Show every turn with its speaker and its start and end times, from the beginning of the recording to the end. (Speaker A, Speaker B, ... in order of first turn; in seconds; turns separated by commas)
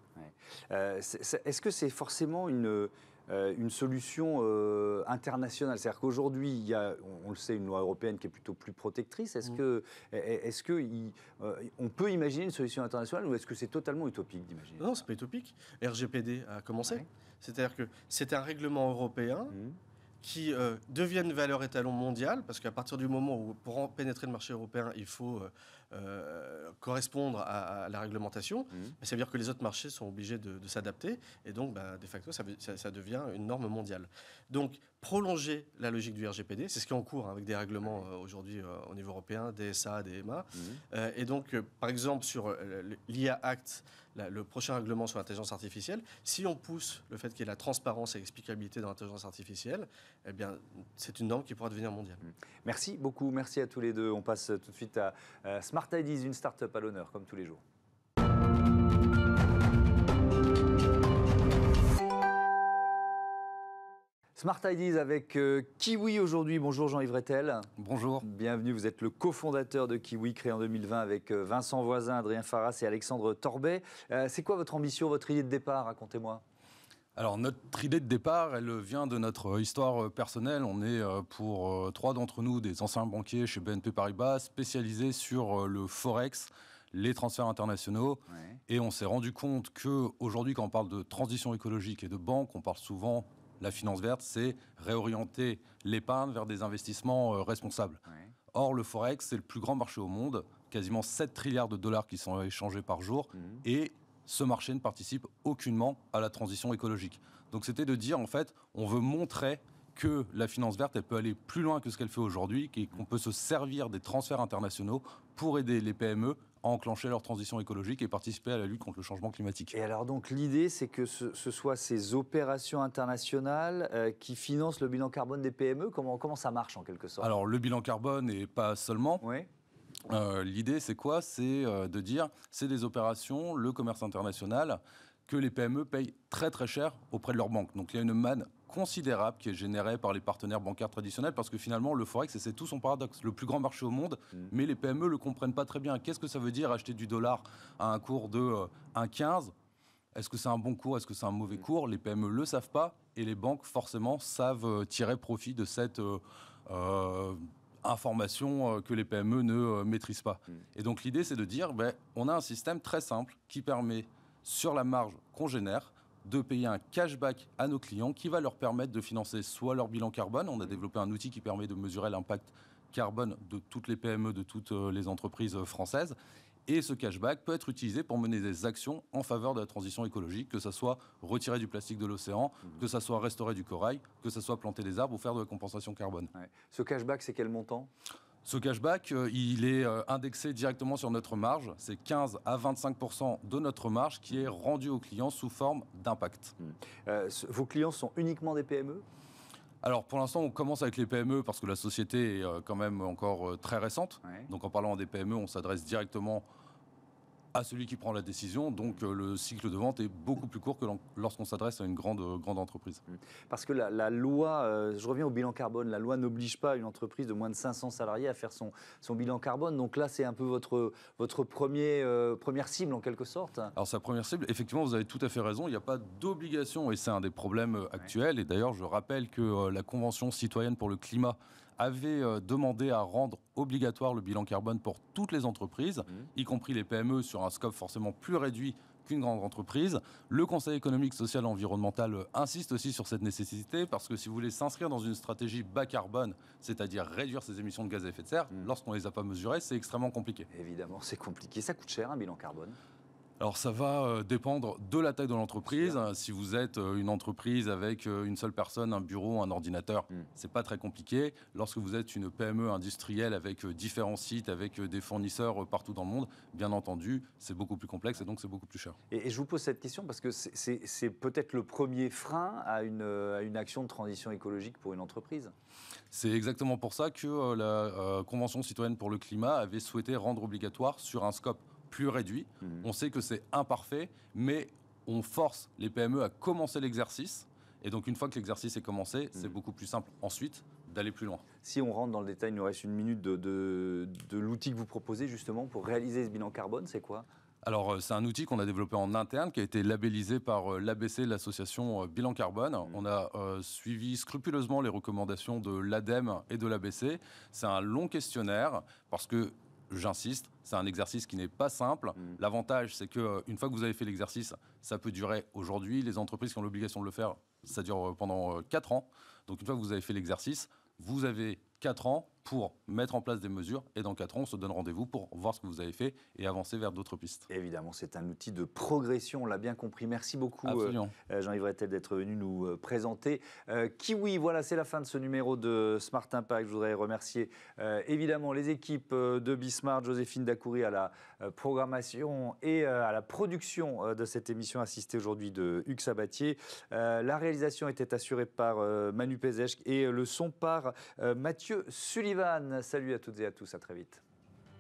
Speaker A: 0.2-15.0, Speaker B: 14.8-19.6, Speaker A: 19.5-19.8, Speaker B: 20.2-52.2, Speaker A: 40.5-40.8, Speaker A: 52.2-57.6, Speaker A: 64.4-67.7, Speaker C: 67.8-68.2, Speaker A: 68.2-76.4, Speaker C: 77.2-119.8, Speaker A: 88.3-88.6, Speaker A: 103.4-103.6, Speaker A: 119.7-127.3, Speaker C: 127.2-129.2, Speaker A: 129.2-129.5, Speaker C: 130.1-149.5, Speaker C: 150.2-176.2, Speaker C: 176.7-186.3, Speaker A: 186.3-187.9, Speaker C: 188.4-196.5, Speaker A: 196.6-199.1, Speaker C: 199.8-206.4, Speaker C: 207.5-213.0, Speaker A: 213.1-223.7, Speaker C: 223.8-250.5, Speaker A: 250.5-252.8, Speaker C: 253.4-269.0, Speaker A: 255.7-256.0, Speaker A: 269.1-275.5, Speaker C: 276.1-291.4, Speaker A: 291.6-297.3, Speaker C: 297.6-327.5, Speaker A: 327.5-354.2, Speaker C: 330.6-331.1